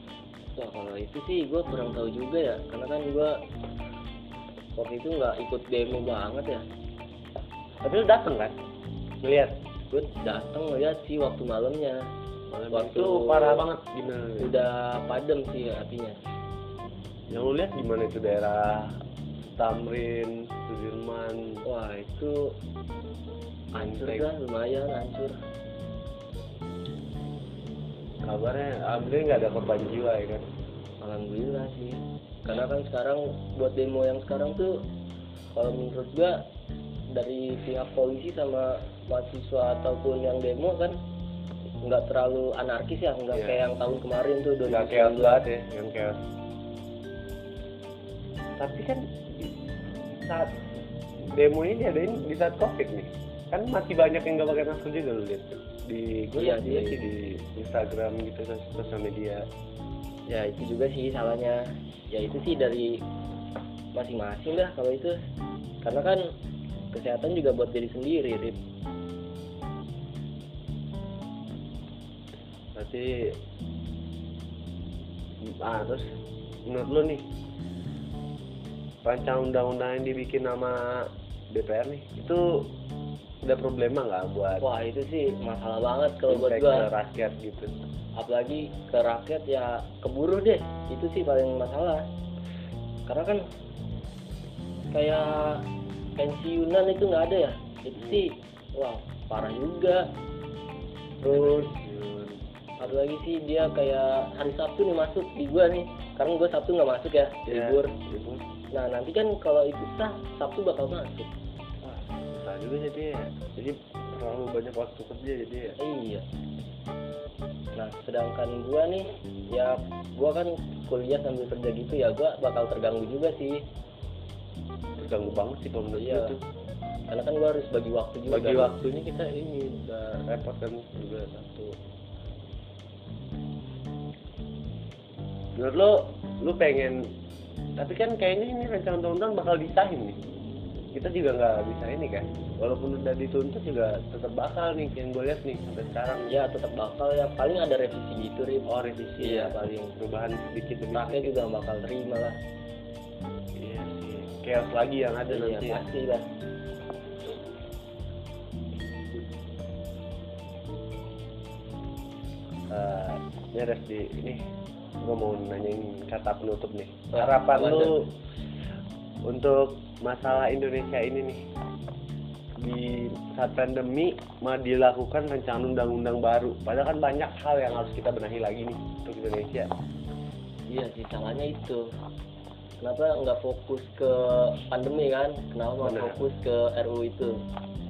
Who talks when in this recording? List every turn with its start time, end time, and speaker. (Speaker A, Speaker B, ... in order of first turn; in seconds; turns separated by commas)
Speaker A: 0.6-3.3, Speaker A: 4.8-6.7, Speaker B: 7.8-8.6, Speaker B: 9.2-9.6, Speaker A: 9.9-12.1, Speaker B: 12.5-14.5, Speaker A: 12.7-13.7, Speaker A: 14.4-16.2, Speaker B: 17.3-21.6, Speaker A: 21.6-22.6, Speaker B: 23.7-24.3, Speaker A: 23.7-25.4, Speaker B: 28.2-30.5, Speaker A: 31.0-34.8, Speaker A: 35.5-36.4, Speaker A: 37.1-41.0, Speaker A: 41.8-45.4, Speaker B: 43.3-43.6, Speaker B: 44.6-46.2, Speaker B: 48.6-49.6, Speaker B: 50.2-50.6, Speaker B: 51.3-59.5, Speaker A: 56.3-57.0, Speaker A: 60.3-63.0, Speaker A: 64.0-65.2, Speaker A: 65.8-66.3, Speaker A: 66.9-68.6, Speaker B: 72.7-73.4, Speaker B: 75.4-76.1, Speaker B: 76.7-77.3, Speaker B: 79.0-82.7, Speaker B: 83.4-84.7, Speaker A: 84.6-86.9, Speaker B: 86.3-87.8, Speaker A: 88.2-92.0, Speaker A: 93.1-93.4, Speaker A: 94.9-95.7, Speaker A: 96.2-100.1, Speaker B: 98.0-98.3, Speaker A: 101.2-101.8, Speaker B: 101.3-103.0, Speaker A: 102.8-107.9, Speaker B: 107.5-108.5, Speaker A: 108.7-111.3, Speaker B: 111.8-115.8, Speaker A: 115.8-116.2, Speaker A: 117.8-123.6, Speaker B: 125.0-126.4, Speaker A: 125.9-126.4, Speaker A: 127.1-128.8, Speaker B: 128.3-131.8, Speaker B: 135.6-137.1, Speaker B: 137.8-140.2, Speaker B: 140.9-146.3, Speaker A: 146.3-148.7, Speaker B: 148.7-151.3, Speaker A: 149.2-150.0, Speaker A: 150.9-152.4, Speaker B: 153.6-155.9, Speaker A: 155.3-156.3, Speaker B: 162.7-164.4, Speaker B: 165.0-168.1, Speaker A: 167.1-168.0, Speaker B: 169.2-171.5, Speaker B: 172.6-179.7, Speaker A: 180.7-181.9, Speaker A: 182.8-187.4, Speaker B: 185.8-186.2